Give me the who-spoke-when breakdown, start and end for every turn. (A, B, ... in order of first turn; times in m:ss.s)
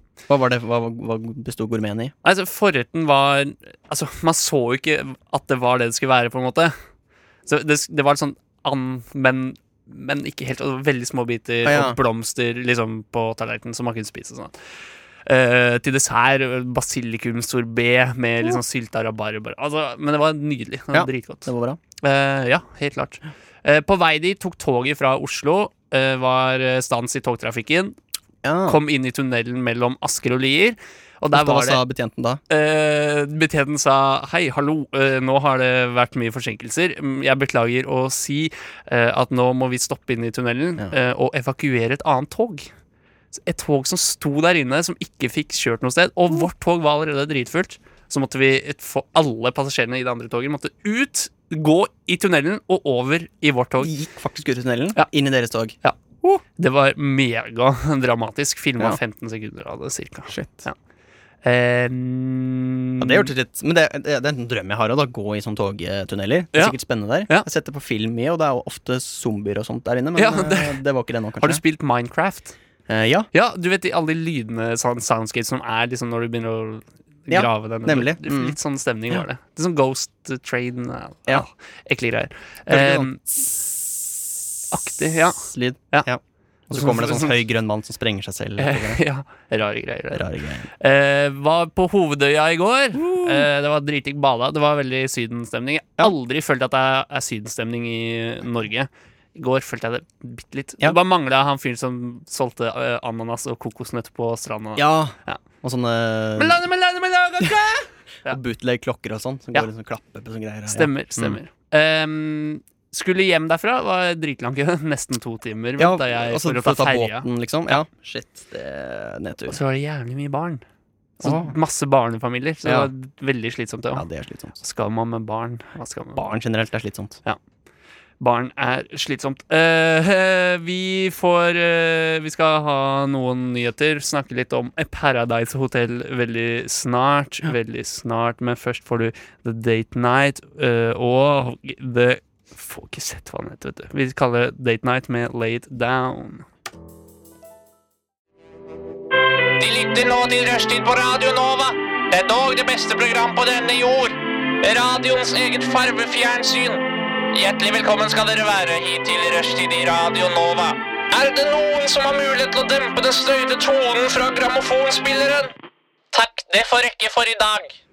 0:00.3-0:02.1 A
0:02.2-0:06.7 B
0:07.5-0:14.5 B
0:11.6-0:12.0 A
0:15.3-0:21.5 B
0:20.9-0:21.8 A
0:22.0-0:28.0 B
0:28.4-0:28.8 A
0:28.7-0:31.8 B
0:31.3-0:32.4 A
0:32.5-0:42.7 B
0:43.4-0:53.9 B
0:53.8-0:56.4 A
0:56.6-1:00.8 B
1:00.3-1:00.6 A
1:01.4-1:03.3 B
1:03.0-1:11.6 A
1:10.2-1:10.8 B
1:11.4-1:12.5 B
1:12.9-1:13.3 A
1:13.3-1:23.2 B
1:17.3-1:18.6 A
1:22.7-1:24.2 A
1:24.7-1:25.4 B
1:25.0-1:29.0 A
1:26.7-1:27.3 B
1:28.6-1:30.2 B
1:30.1-1:30.7 A
1:30.8-1:45.4 B
1:33.0-1:33.5 A
1:44.8-1:46.6 A
1:46.4-1:48.4 B
1:48.3-1:51.4 A
1:50.7-1:57.2 B
1:55.8-1:59.6 A
1:59.5-2:00.6 B
2:01.2-2:01.6 A
2:01.2-2:04.0 B
2:02.6-2:02.9 A
2:03.9-2:04.6 A
2:04.6-2:06.2 B
2:06.2-2:07.2 A
2:08.2-2:26.4 B
2:29.6-2:45.5 C
2:46.1-2:47.7 C